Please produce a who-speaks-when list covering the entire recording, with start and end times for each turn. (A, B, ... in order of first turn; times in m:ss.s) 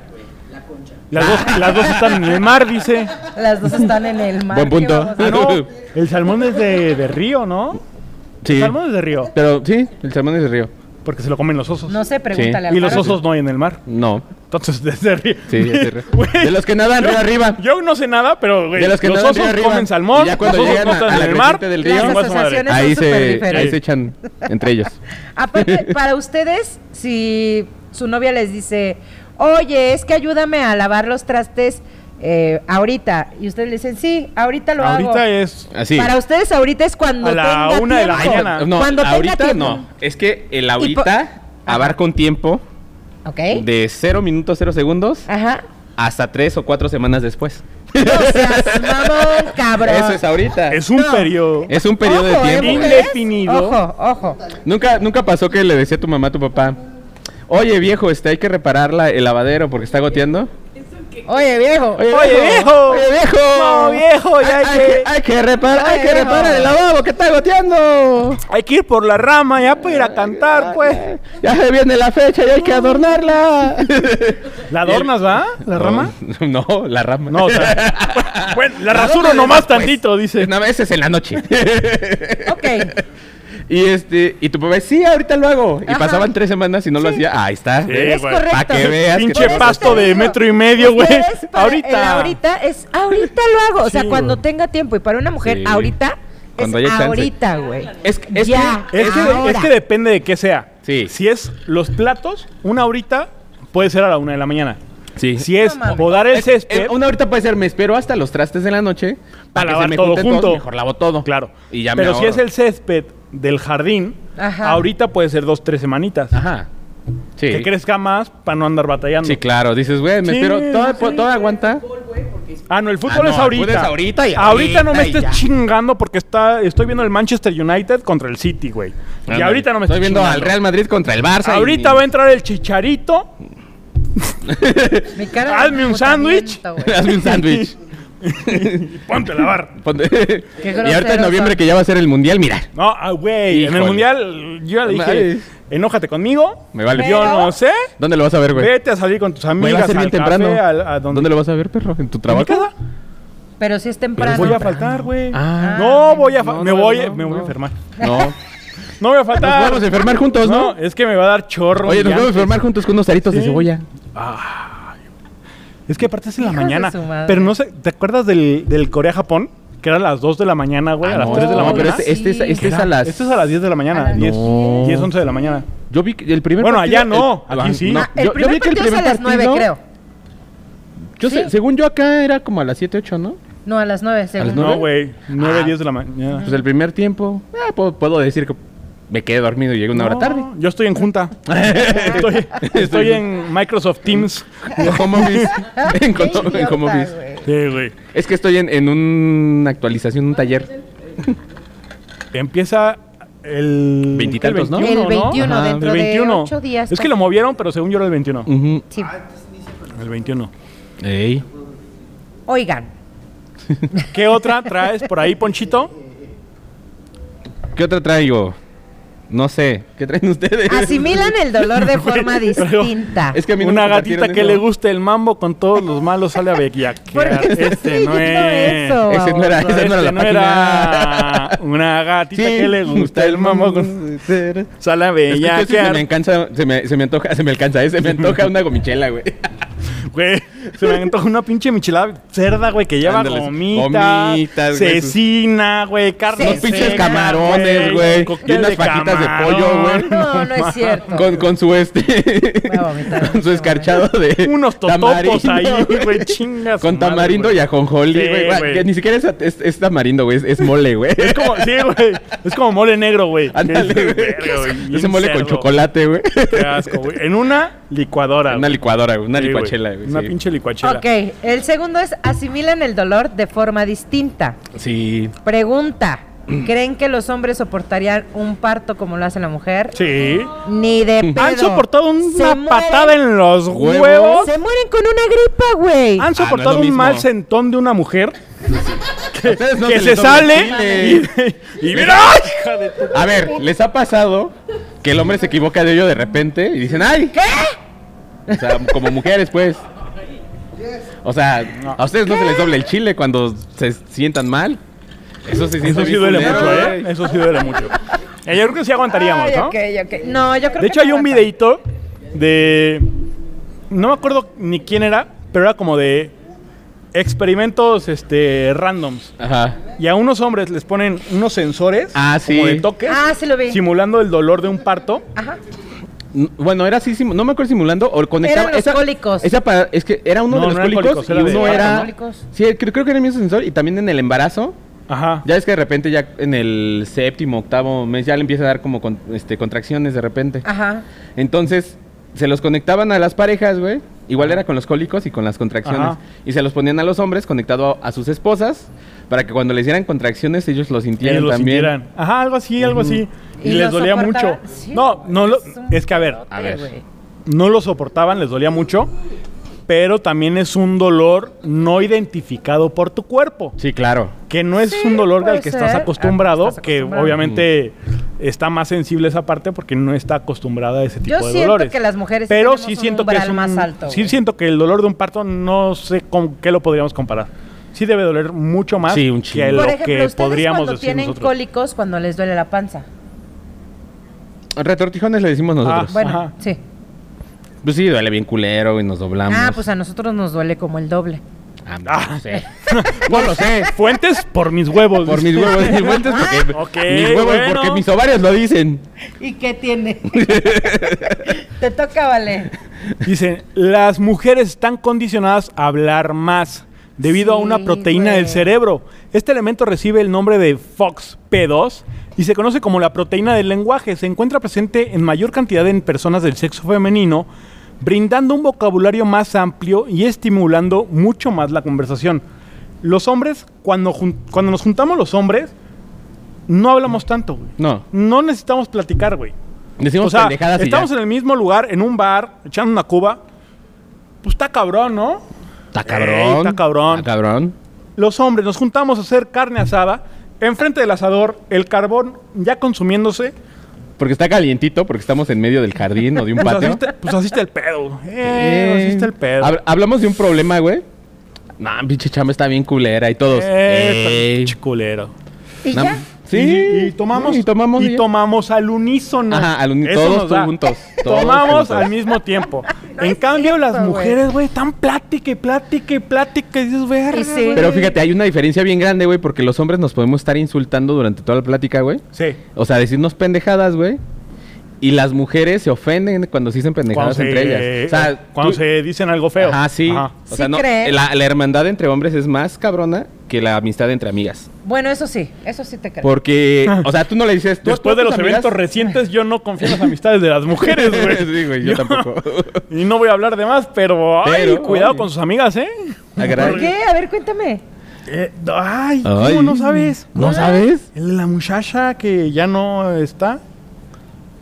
0:01.1-0:03.1 A
0:01.1-0:02.2 B
0:03.2-0:05.6 C
0:04.5-0:05.7 B
0:05.2-0:07.8 A
0:08.4-0:08.8 B
0:08.5-0:09.3 A
0:09.3-0:10.7 B
0:11.0-0:12.0 A
0:11.9-0:13.2 C
0:12.3-0:13.2 B
0:12.7-0:13.8 A
0:13.9-0:14.3 B
0:14.4-0:22.7 A
0:15.5-0:17.6 B
0:18.7-0:25.0 B
0:21.8-0:23.8 C
0:23.5-0:23.8 A
0:25.4-0:35.2 C
0:25.6-0:25.9 B
0:34.8-0:35.7 A
0:35.7-0:36.1 B
0:35.9-0:39.8 C
0:37.2-0:38.7 A
0:38.1-0:42.6 B
0:40.8-0:41.1 C
0:41.6-0:42.0 C
0:43.2-0:43.6 C
0:43.5-0:45.2 B
0:45.3-0:45.6 C
0:46.0-0:50.8 B
0:48.0-0:50.2 C
0:50.7-0:51.7 A
0:50.9-0:51.3 C
0:51.7-0:53.1 B
0:52.0-0:54.4 C
0:52.6-0:53.8 A
0:54.6-0:56.8 B
0:57.5-1:00.5 B
1:01.2-1:02.1 C
1:02.0-1:08.4 B
1:02.1-1:05.1 A
1:05.7-1:06.7 C
1:08.5-1:11.1 A
1:09.8-1:15.1 B
1:14.7-1:16.1 A
1:15.7-1:23.0 B
1:17.3-1:20.5 A
1:22.4-1:22.9 C
1:23.7-1:30.3 B
1:25.9-1:26.3 C
1:27.0-1:27.2 C
1:27.8-1:32.4 A
1:27.9-1:39.7 C
1:33.8-1:34.4 A
1:35.4-1:35.9 B
1:36.6-1:37.3 B
1:38.0-1:39.4 B
1:38.9-1:44.8 A
1:40.8-1:41.1 B
1:45.2-1:45.5 B
1:45.4-1:46.9 A
1:45.6-1:46.2 C
1:46.1-1:52.4 B
1:49.5-1:50.6 A
1:51.2-1:56.3 A
1:54.4-1:54.8 C
1:56.3-1:56.7 B
1:57.4-1:57.7 B
1:57.5-1:59.4 A
1:59.2-2:01.8 B
2:00.2-2:01.2 A
2:02.7-2:10.6 A
2:03.0-2:05.4 B
2:09.3-2:12.0 B
2:11.4-2:13.3 A
2:14.4-2:15.2 B
2:15.1-2:17.1 C
2:15.4-2:17.7 A
2:16.8-2:17.8 B
2:18.2-2:19.7 A
2:18.4-2:18.9 B
2:19.7-2:22.7 B
2:20.6-2:21.6 C
2:22.7-2:27.9 A
2:23.5-2:24.1 B
2:24.8-2:25.4 B
2:26.7-2:27.4 B
2:26.9-2:27.5 C
2:28.0-2:28.7 B
2:28.5-2:31.3 A
2:29.6-2:32.7 B
2:32.3-2:32.7 A
2:33.6-2:35.0 C
2:34.2-2:38.4 B
2:34.2-2:37.8 A
2:35.6-2:36.3 C
2:38.0-2:38.3 C
2:39.0-2:42.7 A
2:39.4-2:40.8 B
2:41.8-2:43.8 B
2:43.3-2:44.9 A
2:45.9-2:55.7 A
2:46.4-2:47.5 C
2:51.0-2:53.4 B
2:51.2-2:52.7 C
2:53.9-2:54.9 C
2:54.1-2:55.1 B
2:55.9-2:59.7 B
2:56.6-2:58.1 A
2:57.9-2:59.8 C
3:01.2-3:03.4 B
3:01.2-3:01.5 C
3:03.6-3:04.9 C
3:04.4-3:04.9 B
3:04.5-3:06.5 A
3:05.4-3:05.7 B
3:06.4-3:10.5 B
3:09.9-3:11.4 A
3:11.4-3:13.2 B
3:12.0-3:15.5 A
3:14.7-3:17.1 B
3:15.5-3:17.5 C
3:17.4-3:17.9 A
3:18.1-3:21.4 B
3:22.3-3:28.5 A
3:24.1-3:25.9 B
3:24.8-3:27.1 C
3:28.4-3:28.8 B
3:29.9-3:30.5 A
3:31.0-3:31.4 B
3:32.5-3:32.9 C
3:34.1-3:35.9 A
3:37.7-3:38.6 B
3:39.3-3:41.3 B
3:40.7-3:43.4 C
3:41.7-3:43.0 A
3:43.3-3:44.6 B
3:43.6-3:54.1 A
3:47.1-3:49.5 C
3:49.0-3:51.6 B
3:52.3-3:54.7 B
3:54.8-3:56.0 A
3:55.3-3:59.6 B
4:00.1-4:11.1 A
4:03.0-4:05.1 B
4:06.3-4:08.3 C
4:06.4-4:10.3 B
4:09.9-4:11.3 C
4:11.1-4:21.8 B
4:12.6-4:13.9 C
4:14.4-4:18.9 A
4:21.2-4:25.7 A
4:23.5-4:27.1 B
4:26.5-4:28.8 A
4:28.5-4:30.3 B
4:29.3-4:31.0 A
4:30.8-4:34.6 C
4:34.7-4:35.3 B
4:35.4-4:40.0 C
4:40.0-4:40.5 A
4:40.6-4:43.1 C
4:41.4-4:44.5 A
4:43.7-4:44.5 B
4:44.4-4:46.3 C
4:46.2-4:48.3 A
4:46.3-4:47.3 B
4:48.8-4:51.3 B
4:49.3-4:53.5 A
4:51.9-4:52.5 B
4:53.1-4:57.4 B
4:57.3-4:57.8 C
4:58.5-4:59.8 B
5:01.2-5:04.8 B
5:02.3-5:02.7 C
5:05.4-5:07.1 B
5:05.8-5:07.9 A
5:08.4-5:09.7 A
5:09.1-5:11.5 C
5:10.8-5:13.1 A
5:13.9-5:16.3 A
5:17.1-5:19.3 A
5:19.4-5:19.8 B
5:20.0-5:25.2 A
5:22.1-5:22.9 B
5:23.0-5:23.8 C
5:26.3-5:34.8 B
5:28.4-5:29.5 C
5:30.5-5:32.1 A
5:31.4-5:32.4 C
5:35.1-5:35.4 A
5:35.4-5:40.6 B
5:40.6-5:41.0 C
5:41.4-5:51.9 B
5:45.8-5:46.2 A
5:51.2-5:56.4 A
5:52.8-5:53.2 B
5:53.6-5:57.0 C
5:56.5-5:56.9 B
5:57.4-5:59.1 A
5:59.9-6:03.8 A
6:03.8-6:04.3 B
6:04.5-6:12.0 A
6:04.8-6:07.4 C
6:07.4-6:07.6 B
6:11.2-6:14.3 C
6:12.5-6:21.5 A
6:19.0-6:19.9 B
6:19.7-6:23.1 C
6:24.7-6:26.1 B
6:25.8-6:26.5 A
6:26.1-6:26.8 C
6:27.8-6:29.8 B
6:29.5-6:31.4 C
6:31.8-6:33.9 B
6:32.1-6:38.0 A
6:35.2-6:39.0 B
6:36.0-6:36.7 C
6:39.4-6:42.7 C
6:40.3-6:41.5 B
6:43.2-6:57.5 A
6:47.2-6:48.7 C
6:58.0-7:02.4 A
7:03.0-7:05.7 A
7:06.7-7:09.5 A
7:07.8-7:08.0 B
7:10.0-7:11.1 B
7:10.2-7:13.4 A
7:14.4-7:15.4 A
7:15.9-7:17.7 B
7:16.0-7:17.3 A
7:18.2-7:23.5 A
7:24.2-7:27.0 B
7:26.6-7:29.7 A
7:28.4-7:31.0 B
7:31.8-7:34.7 B
7:33.5-7:35.3 A
7:35.8-7:36.2 C
7:35.9-7:38.2 B
7:36.5-7:48.1 A
7:39.5-7:42.1 B
7:42.9-7:44.4 C
7:47.3-7:48.1 C
7:47.7-7:52.2 B
7:52.3-7:52.6 A
7:52.8-7:54.2 B
7:55.0-7:58.8 B
7:57.1-8:00.3 A
7:59.6-8:04.7 B
8:00.5-8:01.2 C
8:04.8-8:06.3 C
8:06.2-8:08.8 B
8:07.8-8:12.3 A
8:09.8-8:10.1 B
8:10.8-8:12.8 B
8:12.9-8:16.9 A
8:14.4-8:15.3 B
8:16.4-8:16.9 B
8:16.5-8:17.8 C
8:18.3-8:20.4 A
8:19.2-8:21.1 B
8:20.4-8:20.8 C
8:21.1-8:23.6 A